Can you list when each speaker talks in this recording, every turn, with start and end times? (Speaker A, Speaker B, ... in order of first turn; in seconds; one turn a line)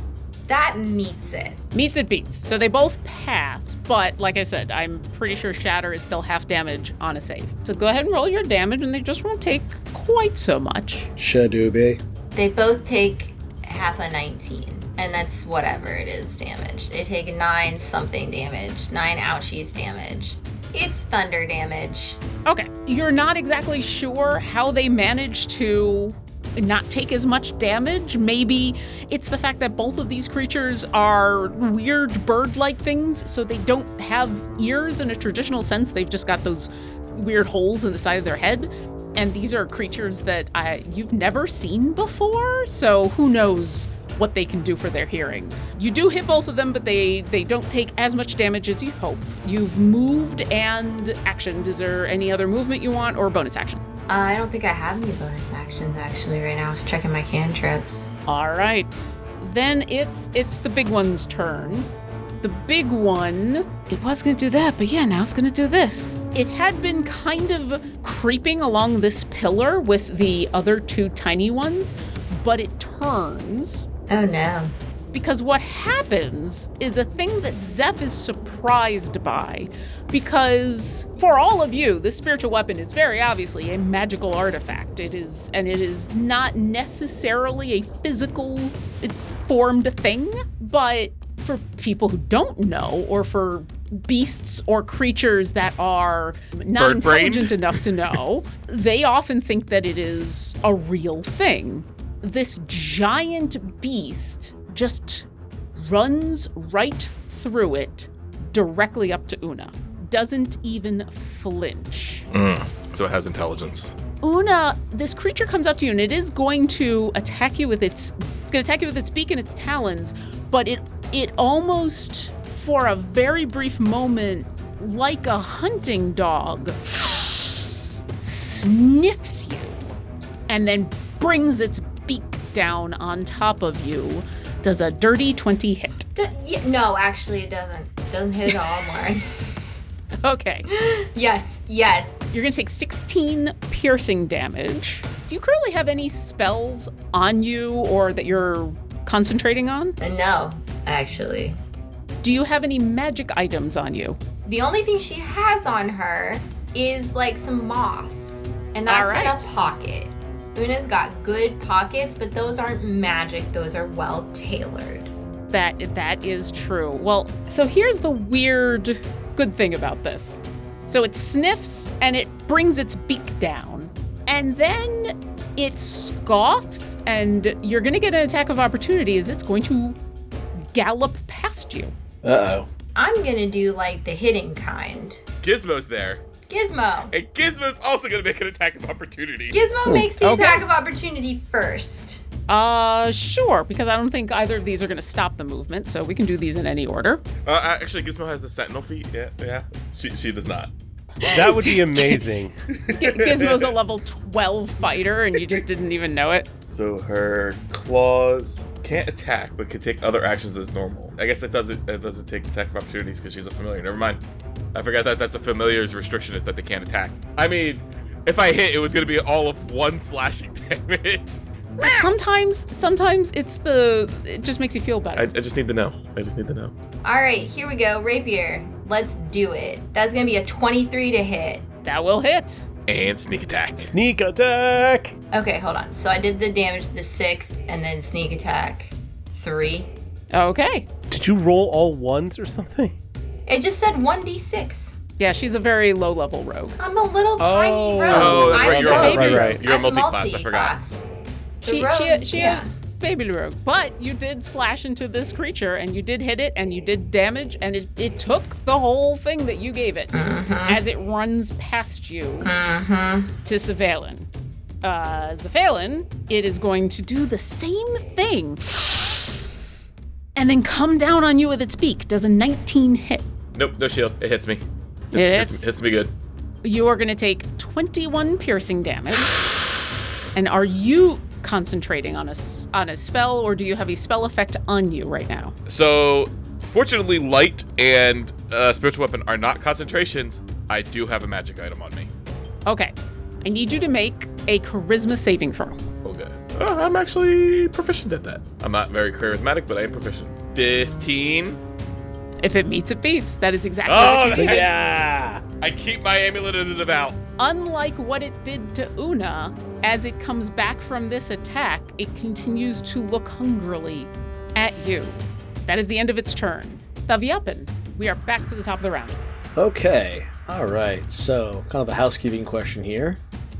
Speaker A: 0.5-1.6
Speaker B: 1.7-11.1
Speaker C: 11.2-12.0
Speaker A: 12.3-22.2
Speaker B: 22.4-53.8
Speaker A: 54.1-58.1
Speaker B: 58.3-61.9
Speaker B: 62.4-73.8
Speaker A: 74.1-74.7
Speaker B: 75.1-112.2
Speaker D: 96.8-98.2
Speaker D: 112.3-114.0
Speaker B: 114.2-127.5
Speaker B: 128.2-129.8
Speaker B: 130.5-136.1
Speaker A: 136.1-139.4
Speaker B: 140.2-140.7
Speaker A: 140.7-142.2
Speaker B: 142.3-150.0
Speaker A: 150.0-151.6
Speaker B: 152.2-154.2
Speaker A: 154.4-165.1
Speaker B: 158.9-159.5
Speaker B: 165.5-180.0
Speaker B: 180.6-181.9
Speaker C: 182.2-182.7
Speaker A: 182.9-185.2
Speaker D: 185.4-186.2
Speaker A: 186.5-187.1
Speaker D: 187.1-189.6
Speaker A: 189.5-192.2
Speaker C: 189.8-190.1
Speaker B: 190.2-190.6
Speaker B: 192.5-197.2
Speaker D: 197.4-200.7
Speaker B: 201.2-202.3
Speaker E: 201.3-202.6
Speaker D: 202.9-203.7
Speaker B: 202.9-206.5
Speaker D: 206.7-214.2
Speaker D: 214.7-221.4
Speaker A: 221.8-222.1
Speaker B: 221.8-225.3
Speaker D: 225.2-226.7
Speaker A: 227.0-231.6
Speaker B: 231.8-232.7
Speaker D: 232.9-233.9
Speaker E: 233.8-235.1
Speaker A: 235.3-239.9
Speaker B: 240.3-240.9
Speaker E: 241.1-242.9
Speaker A: 243.5-244.9
Speaker B: 245.2-246.8
Speaker A: 246.8-251.0
Speaker E: 247.4-249.6
Speaker D: 248.1-250.8
Speaker B: 248.9-249.4
Speaker A: 251.6-252.7
Speaker B: 251.6-260.1
Speaker A: 260.1-260.8
Speaker B: 260.7-262.5
Speaker A: 262.4-263.3
Speaker B: 263.4-264.3
Speaker B: 264.8-269.2
Speaker B: 270.4-273.3
Speaker D: 273.5-276.1
Speaker B: 275.1-275.6
Speaker B: 276.6-279.4
Speaker B: 280.3-285.5
Speaker D: 285.7-292.1
Speaker B: 292.6-295.8
Speaker D: 296.0-301.6
Speaker B: 302.4-304.7
Speaker D: 303.9-304.8
Speaker E: 304.3-305.4
Speaker D: 305.6-307.2
Speaker B: 307.4-319.2
Speaker C: 319.6-323.2